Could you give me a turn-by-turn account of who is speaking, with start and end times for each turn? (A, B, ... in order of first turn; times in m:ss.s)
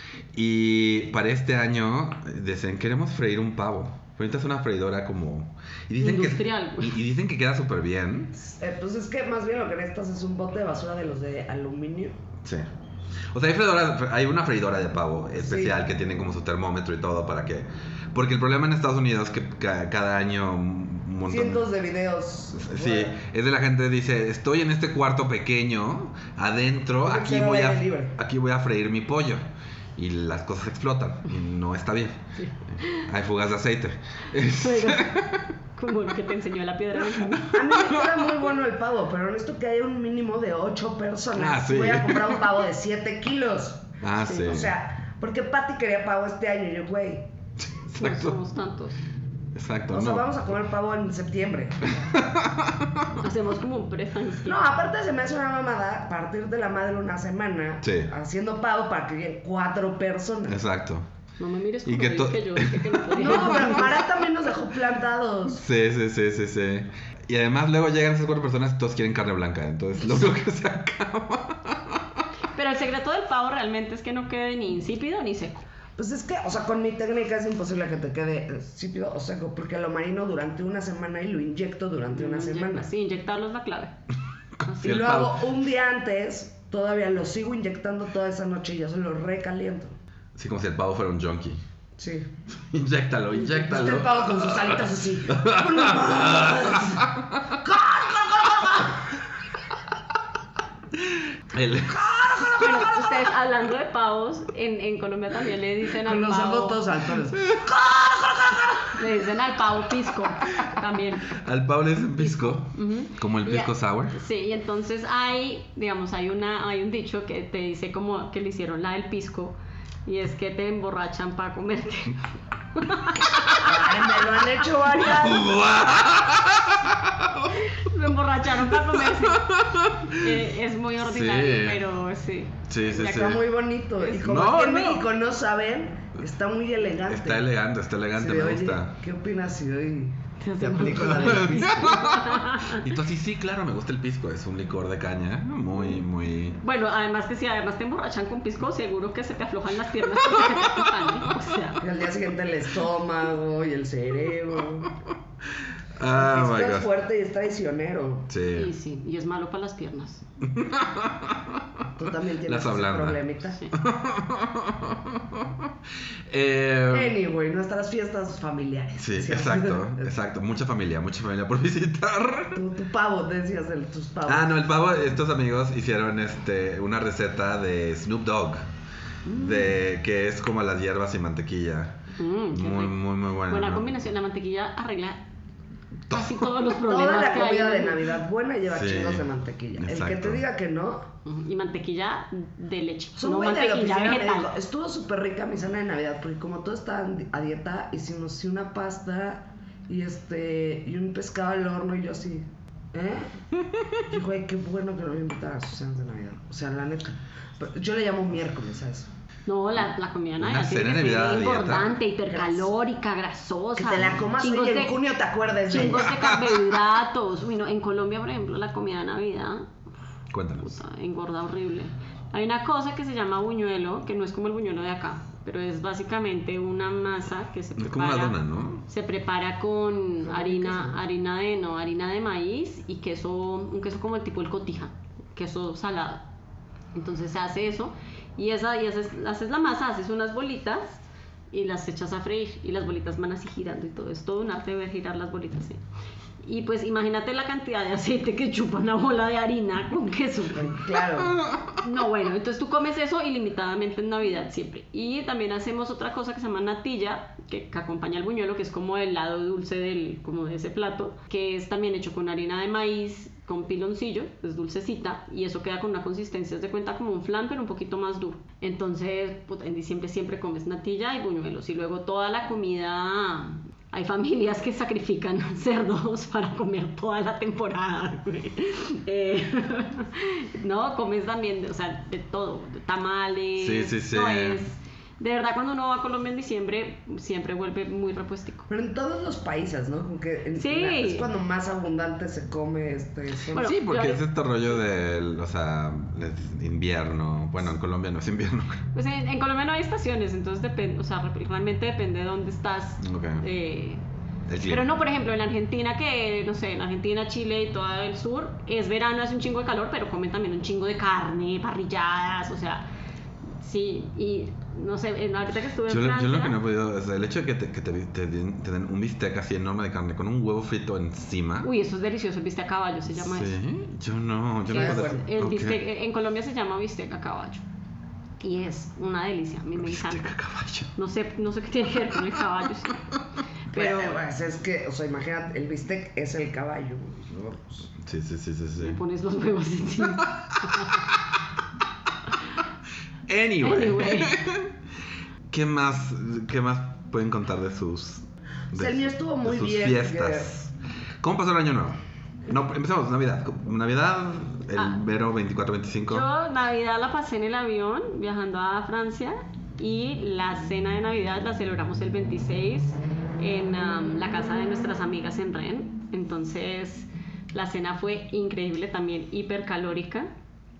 0:00.3-0:08.4 A
0:06.0-0:07.0 B
0:08.4-0:12.2 C
0:12.4-0:12.7 A
0:13.3-0:21.7 A
0:15.4-0:15.8 C
0:21.2-0:23.1 C
0:22.5-0:32.2 A
0:27.0-0:28.2 C
0:32.4-0:33.0 B
0:32.9-0:35.5 A
0:34.4-0:35.2 B
0:35.7-0:37.6 B
0:37.4-0:47.3 C
0:37.4-0:38.2 A
0:41.4-0:42.5 A
0:44.0-0:44.7 A
0:44.2-0:44.6 B
0:47.6-0:48.4 A
0:48.0-0:49.0 B
0:49.5-0:50.4 A
0:49.9-0:52.2 C
0:52.0-0:53.2 A
0:53.2-0:54.6 B
0:54.4-1:00.6 C
0:57.8-0:58.1 A
1:00.5-1:01.1 A
1:01.4-1:04.0 B
1:01.8-1:03.9 A
1:03.1-1:05.6 C
1:05.5-1:12.2 A
1:12.5-1:15.6 B
1:16.0-1:22.9 C
1:22.1-1:23.9 B
1:24.6-1:25.1 B
1:24.7-1:25.4 A
1:24.8-1:29.9 C
1:30.3-1:31.6 A
1:32.0-1:32.3 C
1:32.7-1:37.6 A
1:33.4-1:37.0 C
1:37.6-1:39.0 C
1:41.0-1:43.3 A
1:42.3-1:42.7 C
1:42.6-1:46.8 B
1:46.0-1:47.7 C
1:47.4-1:48.9 A
1:48.9-1:51.4 B
1:51.3-1:54.1 A
1:52.2-2:02.2 B
2:02.7-2:03.8 B
2:03.6-2:05.7 C
2:05.0-2:07.5 A
2:07.5-2:09.5 B
2:09.1-2:10.4 A
2:10.0-2:13.4 B
2:11.0-2:11.8 A
2:12.7-2:13.4 A
2:12.9-2:17.4 C
2:14.0-2:14.8 B
2:14.2-2:15.0 A
2:17.1-2:18.9 A
2:18.1-2:22.0 C
2:20.4-2:22.9 B
2:20.8-2:26.6 A
2:26.6-2:31.8 B
2:31.8-2:34.9 C
2:36.0-2:36.9 A
2:36.1-2:38.3 C
2:38.3-2:38.7 A
2:38.5-2:40.2 B
2:40.4-2:41.6 A
2:41.9-2:43.6 C
2:42.4-2:43.2 A
2:43.7-2:45.7 A
2:46.3-2:47.1 A
2:46.9-2:50.1 C
2:49.0-2:52.6 A
2:52.5-2:54.7 C
2:54.2-2:58.7 A
2:59.3-3:02.0 A
3:02.2-3:05.2 B
3:02.5-3:03.9 A
3:06.1-3:08.0 B
3:06.1-3:06.5 A
3:06.8-3:11.1 C
3:08.7-3:10.4 A
3:11.2-3:14.5 B
3:13.2-3:23.3 C
3:24.0-3:29.1 C
3:29.5-3:35.0 B
3:30.4-3:31.9 A
3:32.3-3:32.7 C
3:33.7-3:36.2 C
3:35.7-3:39.7 B
3:35.8-3:36.6 A
3:40.3-3:40.7 A
3:40.6-3:56.2 B
3:47.8-3:48.8 A
3:50.2-3:51.0 C
3:56.9-4:05.8 B
4:06.4-4:10.9 B
4:10.6-4:11.4 C
4:11.7-4:48.7 B
4:43.6-4:44.6 A
4:48.7-4:53.7 C
4:50.5-4:51.3 B
4:53.5-4:54.2 B
4:53.6-4:58.8 A
4:58.9-5:04.0 B
5:03.0-5:03.4 A
5:04.5-5:04.9 A
5:04.6-5:12.9 B
5:13.6-5:16.6 B
5:15.9-5:21.7 A
5:21.6-5:23.6 B
5:23.1-5:25.8 A
5:24.7-5:27.6 B
5:24.7-5:25.3 C
5:28.4-5:30.3 B
5:29.8-5:30.9 A
5:30.9-5:33.0 B
5:33.7-5:34.2 B
5:33.7-5:37.9 C
5:38.0-5:39.0 A
5:38.8-5:41.0 B
5:40.2-5:41.0 A
5:43.3-5:44.7 A
5:43.6-5:44.4 B
5:45.5-5:56.3 A
5:48.7-5:50.5 C
5:56.1-6:10.3 B